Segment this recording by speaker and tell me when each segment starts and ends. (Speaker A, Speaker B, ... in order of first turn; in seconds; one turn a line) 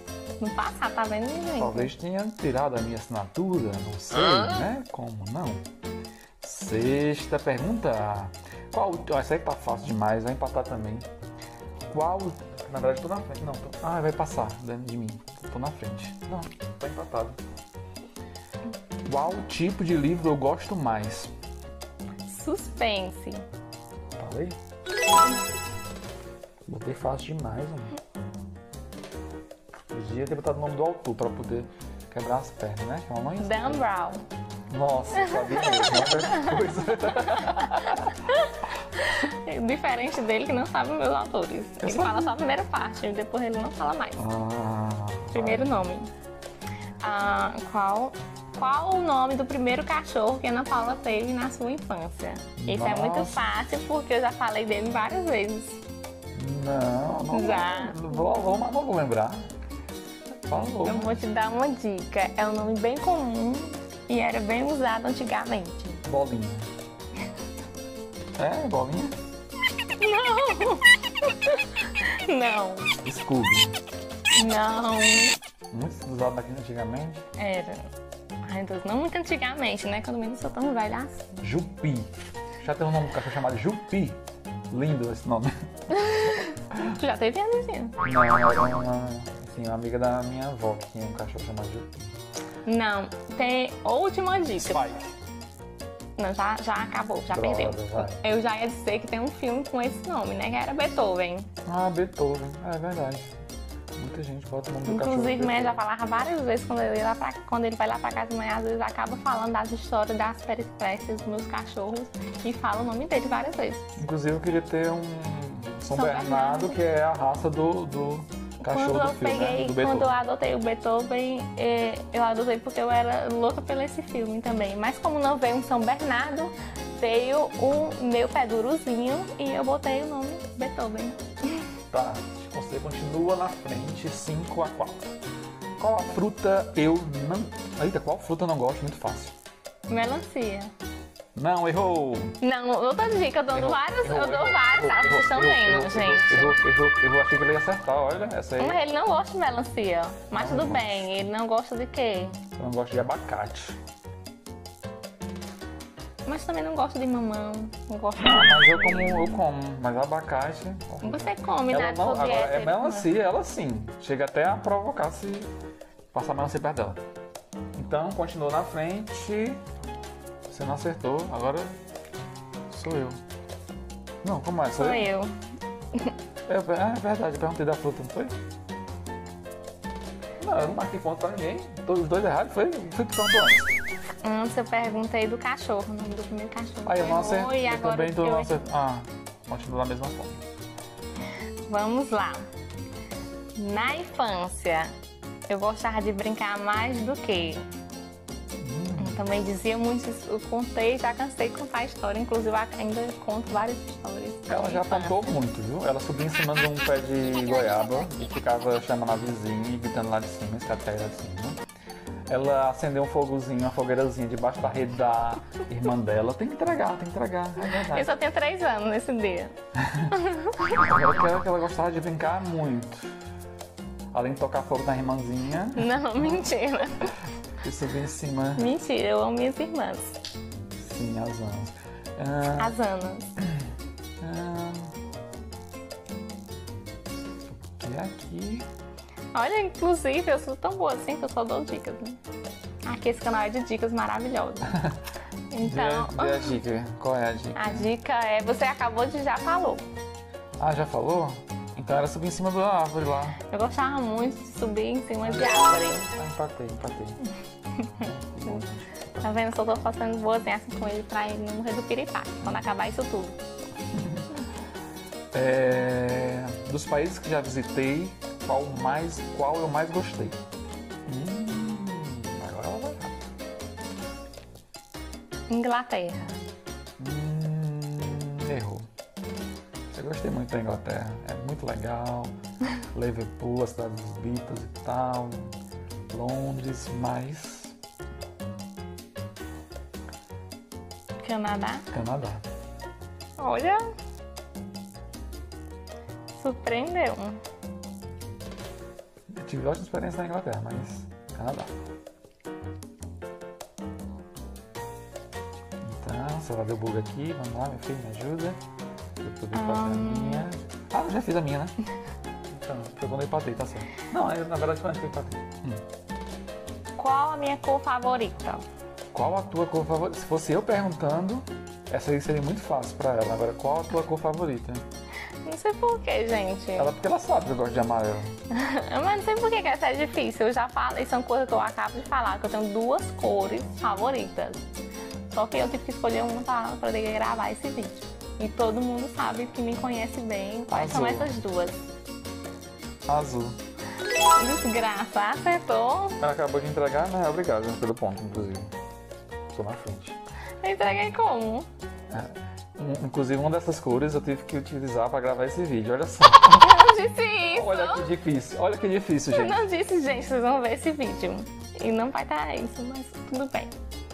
Speaker A: 0.4-1.9
Speaker B: 1.6-5.7
Speaker B: 6.4-11.1
Speaker B: 11.9-17.4
Speaker B: 19.1-21.3
Speaker A: 22.3-23.4
Speaker B: 24.2-24.6
Speaker B: 26.7-28.0
Speaker B: 29.9-33.9
Speaker A: 33.4-34.2
Speaker B: 34.7-38.2
Speaker A: 35.2-36.5
Speaker A: 38.2-44.2
Speaker B: 41.8-42.3
Speaker B: 44.2-45.9
Speaker A: 45.3-46.1
Speaker A: 47.0-55.8
Speaker B: 52.6-53.4
Speaker B: 56.3-59.5
Speaker A: 57.3-58.4
Speaker B: 60.5-61.2
Speaker A: 60.8-66.0
Speaker B: 66.0-66.7
Speaker B: 68.4-69.2
Speaker A: 70.0-72.9
Speaker B: 73.0-73.8
Speaker A: 74.3-75.4
Speaker B: 75.7-77.2
Speaker A: 77.4-77.9
Speaker A: 78.5-81.4
Speaker B: 81.4-85.5
Speaker A: 85.9-88.0
Speaker B: 88.0-92.2
Speaker A: 92.7-94.8
Speaker B: 94.5-95.1
Speaker A: 96.2-101.5
Speaker B: 97.3-98.2
Speaker B: 101.7-103.3
Speaker B: 104.0-105.8
Speaker A: 104.8-114.0
Speaker B: 114.0-120.2
Speaker A: 115.9-116.8
Speaker A: 118.6-131.7
Speaker B: 131.9-135.1
Speaker B: 135.8-139.4
Speaker A: 139.9-140.7
Speaker B: 141.3-142.4
Speaker A: 142.4-146.6
Speaker B: 143.5-148.8
Speaker A: 148.6-152.4
Speaker B: 150.3-151.1
Speaker B: 152.6-153.8
Speaker A: 156.3-159.4
Speaker B: 158.2-165.5
Speaker A: 161.0-163.1
Speaker B: 166.1-167.0
Speaker B: 167.8-169.6
Speaker B: 170.5-171.8
Speaker B: 172.7-173.2
Speaker B: 174.2-175.1
Speaker A: 174.8-175.3
Speaker B: 176.5-178.3
Speaker B: 180.4-183.7
Speaker A: 184.2-188.7
Speaker B: 186.9-190.5
Speaker A: 191.7-192.5
Speaker A: 193.6-194.9
Speaker A: 195.5-197.7
Speaker B: 198.6-199.2
Speaker A: 199.0-205.3
Speaker B: 204.5-211.6
Speaker B: 212.3-218.1
Speaker A: 217.9-219.6
Speaker B: 219.8-220.1
Speaker A: 220.1-220.8
Speaker B: 220.7-223.2
Speaker B: 224.1-226.4
Speaker A: 225.8-227.1
Speaker B: 227.6-228.7
Speaker A: 228.6-230.2
Speaker B: 230.8-232.8
Speaker A: 232.6-233.4
Speaker B: 234.2-234.9
Speaker B: 237.5-238.7
Speaker A: 239.3-242.2
Speaker A: 242.8-244.9
Speaker A: 245.5-246.6
Speaker B: 245.6-247.9
Speaker A: 247.6-249.8
Speaker B: 250.6-253.4
Speaker A: 253.5-256.1
Speaker B: 255.2-257.2
Speaker A: 257.8-258.6
Speaker B: 257.9-259.3
Speaker A: 259.2-263.4
Speaker B: 262.4-262.7
Speaker B: 263.9-264.3
Speaker B: 265.3-270.4
Speaker B: 271.1-273.2
Speaker A: 275.5-276.4
Speaker B: 277.0-278.9
Speaker B: 279.9-282.4
Speaker B: 282.9-285.5
Speaker B: 286.1-287.8
Speaker A: 291.2-291.9
Speaker B: 291.9-292.4
Speaker A: 293.4-293.8
Speaker A: 296.3-297.4
Speaker B: 299.3-301.7
Speaker B: 305.8-308.6
Speaker B: 309.2-311.8
Speaker A: 309.5-310.5
Speaker B: 312.5-315.8
Speaker A: 317.0-318.6
Speaker B: 319.1-324.9
Speaker A: 325.4-326.9
Speaker B: 326.8-328.3
Speaker A: 328.5-334.6
Speaker A: 335.3-341.8
Speaker B: 340.7-341.4
Speaker B: 343.1-343.6
Speaker A: 344.4-346.2
Speaker B: 346.2-348.7
Speaker B: 349.5-350.2
Speaker A: 350.6-351.7
Speaker B: 352.1-356.8
Speaker A: 356.6-358.1
Speaker B: 357.5-359.6
Speaker A: 359.3-363.7